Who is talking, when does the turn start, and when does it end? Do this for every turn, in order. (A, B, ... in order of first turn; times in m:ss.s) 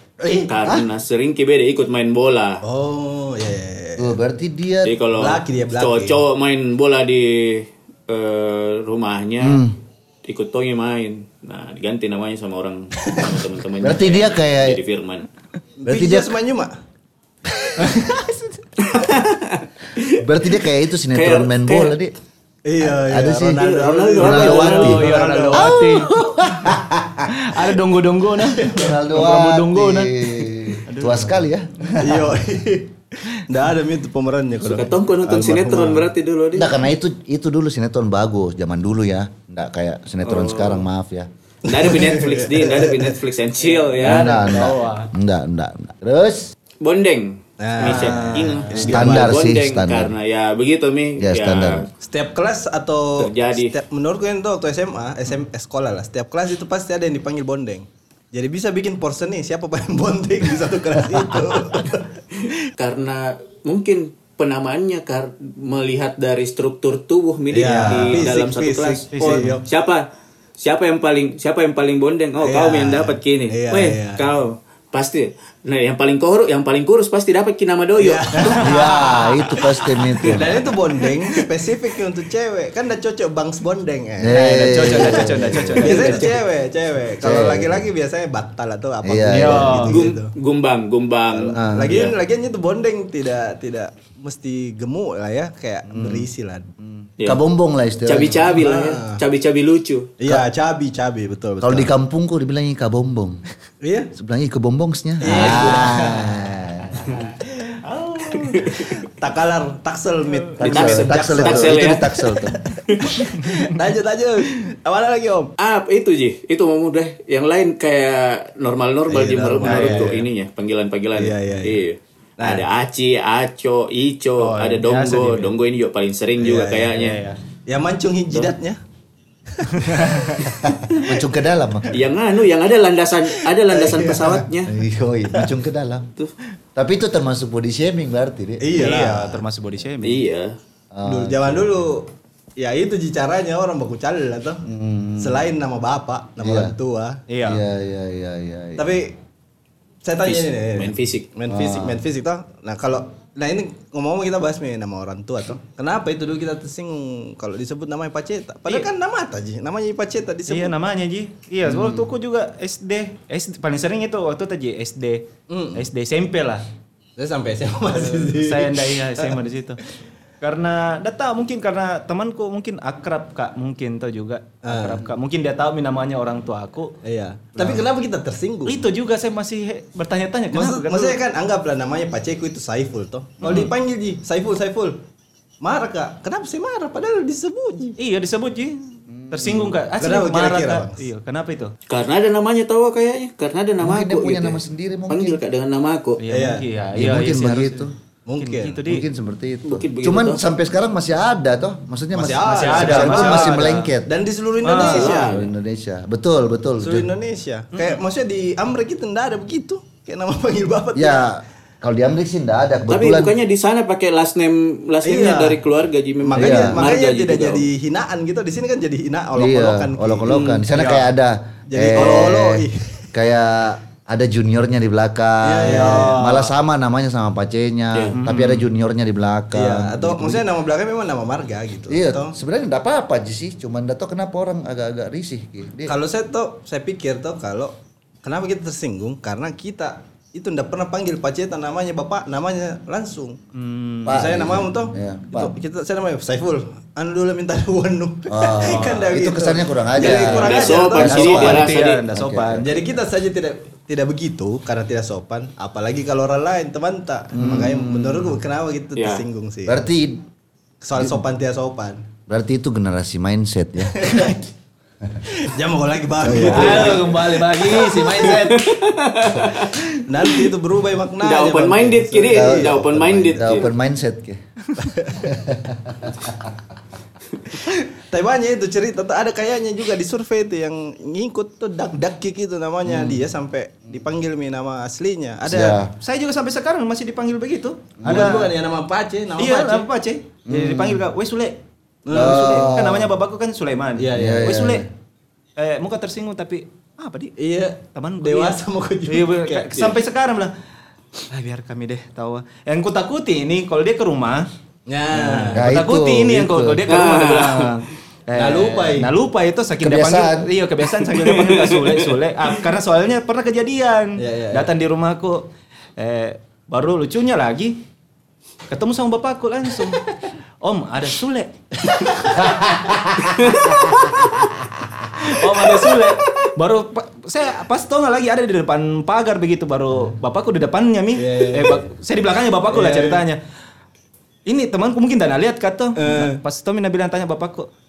0:00.2-0:00.5 A
0:00.3-0:02.6 B
0:02.6-0:04.2 A
0:04.0-0:04.9 C
0:04.8-0:09.6 B
0:05.2-0:06.2 A
0:09.4-0:09.7 C
0:10.2-0:15.3 B
0:13.0-0:13.4 A
0:13.8-0:14.8 C
0:15.8-0:16.7 A
0:15.8-0:16.3 C
0:17.6-0:18.4 A
0:18.8-0:20.2 B
0:20.2-0:22.1 C
0:21.1-0:22.0 B
0:22.6-0:25.8 A
0:22.8-0:23.6 C
0:23.6-0:25.0 B
0:24.2-0:27.6 C
0:24.3-0:26.7 D
0:27.3-0:31.4 D
0:28.6-0:32.2 C
0:32.0-0:36.1 A
0:34.6-0:36.7 B
0:36.6-0:41.3 C
0:40.2-0:40.8 B
0:41.6-0:44.6 B
0:41.7-0:43.1 A
0:43.6-0:45.1 D
0:44.0-0:46.5 C
0:46.8-0:51.9 B
0:47.6-0:49.3 A
0:47.8-0:49.0 D
0:48.4-0:50.1 C
0:51.2-0:51.8 C
0:52.0-1:02.5 A
0:53.2-0:53.7 B
1:02.8-1:10.0 B
1:07.5-1:09.6 A
1:09.1-1:09.6 D
1:10.6-1:18.9 B
1:12.4-1:14.2 A
1:18.0-1:19.4 A
1:18.6-1:20.6 C
1:20.2-1:30.3 A
1:24.2-1:26.1 C
1:24.3-1:26.3 D
1:27.2-1:27.9 C
1:29.0-1:29.9 C
1:29.3-1:30.0 D
1:29.9-1:32.1 B
1:31.3-1:36.7 A
1:31.6-1:32.0 C
1:35.9-1:36.3 C
1:37.0-1:38.5 C
1:38.0-1:40.1 B
1:38.5-1:39.2 A
1:40.2-1:41.9 A
1:41.6-1:43.4 C
1:43.8-1:44.1 A
1:44.1-1:47.2 C
1:45.2-1:46.5 A
1:45.3-1:45.9 B
1:47.0-1:47.3 A
1:47.8-1:48.8 D
1:48.3-1:48.9 B
1:48.7-1:55.5 A
1:50.6-1:52.6 C
1:50.6-1:52.1 B
1:53.4-1:53.7 D
1:55.6-2:07.2 B
1:59.1-2:00.2 A
1:59.6-2:00.2 D
2:01.2-2:01.8 A
2:02.4-2:02.6 A
2:04.4-2:05.5 D
2:06.4-2:07.0 A
2:06.9-2:07.4 D
2:07.6-2:08.8 A
2:09.6-2:11.0 A
2:09.7-2:10.4 D
2:10.9-2:12.0 C
2:11.9-2:14.8 B
2:13.5-2:14.5 A
2:14.7-2:16.1 C
2:16.8-2:19.0 C
2:18.6-2:19.4 A
2:18.7-2:20.2 D
2:20.0-2:20.6 B
2:20.9-2:21.9 C
2:21.0-2:24.6 A
2:24.6-2:25.4 C
2:25.2-2:27.2 A
2:26.4-2:26.7 C
2:27.3-2:27.6 D
2:27.4-2:29.0 C
2:28.8-2:29.2 A
2:30.0-2:40.8 A
2:30.2-2:31.3 B
2:31.5-2:32.0 C
2:40.5-2:46.6 D
2:41.7-2:42.0 A
2:45.5-2:45.9 A
2:47.2-2:49.4 A
2:48.0-2:49.8 D
2:50.4-2:56.9 D
2:54.6-2:55.0 A
2:57.0-2:58.8 A
2:57.5-2:57.8 D
2:58.6-3:01.2 D
3:00.5-3:05.0 A
3:03.4-3:03.7 D
3:05.6-3:08.0 A
3:08.0-3:11.7 D
3:09.1-3:09.8 C
3:10.0-3:11.1 A
3:11.9-3:16.2 B
3:13.8-3:15.4 C
3:16.2-3:17.9 D
3:16.3-3:16.7 A
3:16.9-3:17.9 C
3:18.2-3:18.8 A
3:18.4-3:19.1 D
3:18.8-3:24.1 C
3:19.6-3:20.4 B
3:22.1-3:25.4 A
3:22.5-3:23.9 D
3:24.6-3:25.1 D
3:24.8-3:25.5 B
3:25.0-3:27.1 C
3:26.8-3:31.3 A
3:27.7-3:28.0 D
3:30.9-3:33.3 C
3:32.9-3:37.6 B
3:35.0-3:35.6 A
3:36.2-3:40.6 A
3:36.4-3:36.9 C
3:39.4-3:50.4 C
3:40.7-3:41.1 D
3:41.7-3:43.1 A
3:45.4-3:46.3 A
3:45.6-3:46.5 D
3:48.2-3:48.6 D
3:49.5-3:52.4 A
3:51.9-3:55.9 C
3:55.9-4:03.4 A
4:03.5-4:04.2 D
4:04.0-4:05.6 C
4:04.1-4:11.6 A
4:08.3-4:12.7 C
4:10.0-4:12.0 B
4:11.0-4:12.7 D
4:12.6-4:19.8 A
4:17.3-4:18.4 C
4:19.0-4:19.2 B
4:19.6-4:20.2 C
4:20.8-4:22.0 A
4:22.3-4:24.3 C
4:23.9-4:24.4 A
4:25.2-4:28.5 A
4:26.2-4:27.0 C
4:26.3-4:28.8 D
4:28.4-4:29.8 B
4:29.7-4:30.4 D
4:30.0-4:33.5 A
4:31.2-4:33.7 B
4:32.3-4:34.4 C
4:34.8-4:35.2 A
4:35.2-4:36.5 C
4:37.5-4:45.8 A
4:42.8-4:43.2 C
4:45.4-4:45.9 C
4:46.0-4:48.5 D
4:48.0-4:48.4 C
4:48.0-4:49.9 A
4:49.4-4:54.8 D
4:50.5-4:51.0 C
4:52.0-4:52.7 A
4:52.1-4:53.1 C
4:54.0-4:54.6 A
4:54.1-4:54.9 C
4:55.6-4:57.3 D
4:57.4-4:59.9 A
4:57.9-5:00.5 D
5:01.3-5:04.5 D
5:04.9-5:05.7 A
5:05.1-5:17.8 D
5:05.5-5:06.9 C
5:06.9-5:07.7 B
5:08.3-5:09.1 A
5:09.8-5:10.5 C
5:11.4-5:11.6 B
5:14.2-5:14.7 A
5:18.7-5:22.6 D
5:22.0-5:22.4 A
5:22.9-5:24.1 C
5:23.3-5:23.7 B
5:25.2-5:33.4 D
5:31.1-5:31.9 A
5:32.7-5:33.2 A
5:34.4-5:37.7 D
5:36.0-5:36.4 A